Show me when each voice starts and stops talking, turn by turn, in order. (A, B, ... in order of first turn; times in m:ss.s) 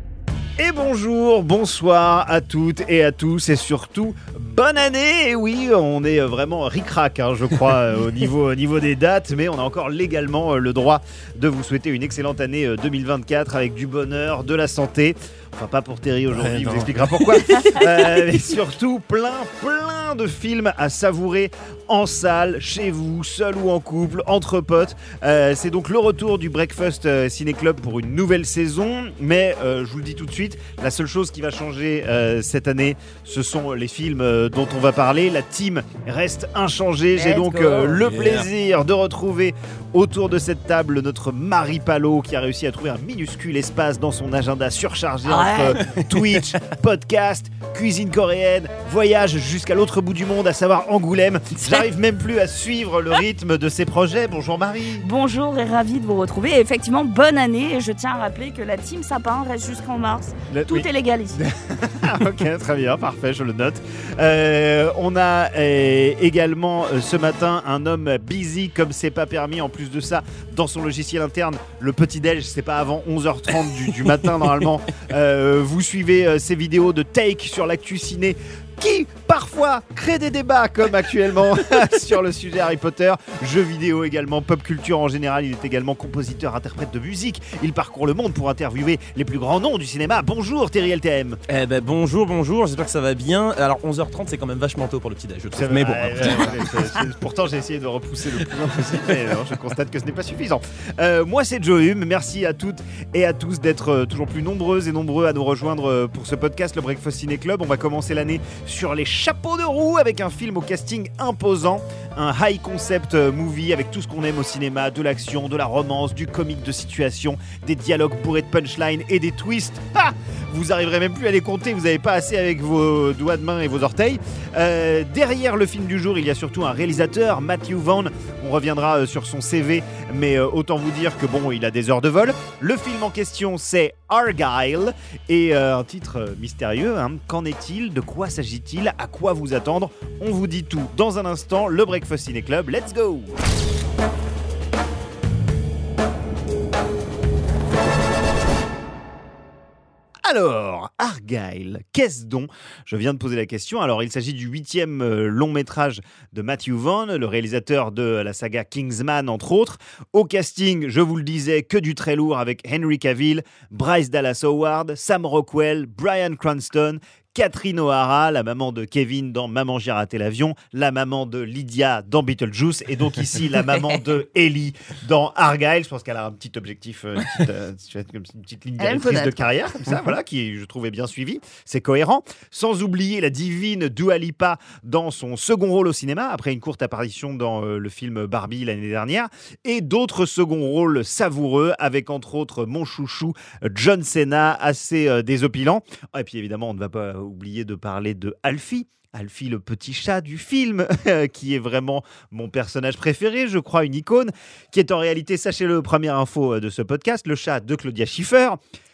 0:00.6-0:55.0 A
0:16.3-0:18.3 B
0:37.2-0:38.2 C
0:38.1-0:38.4 B
0:45.2-0:45.8 C
0:51.5-0:51.8 C
0:55.0-1:01.4 C
1:00.5-1:31.4 A
1:13.5-1:14.6 B
1:31.5-1:36.6 B
1:35.5-2:23.3 A
2:30.2-3:28.6 A
2:58.8-2:59.5 C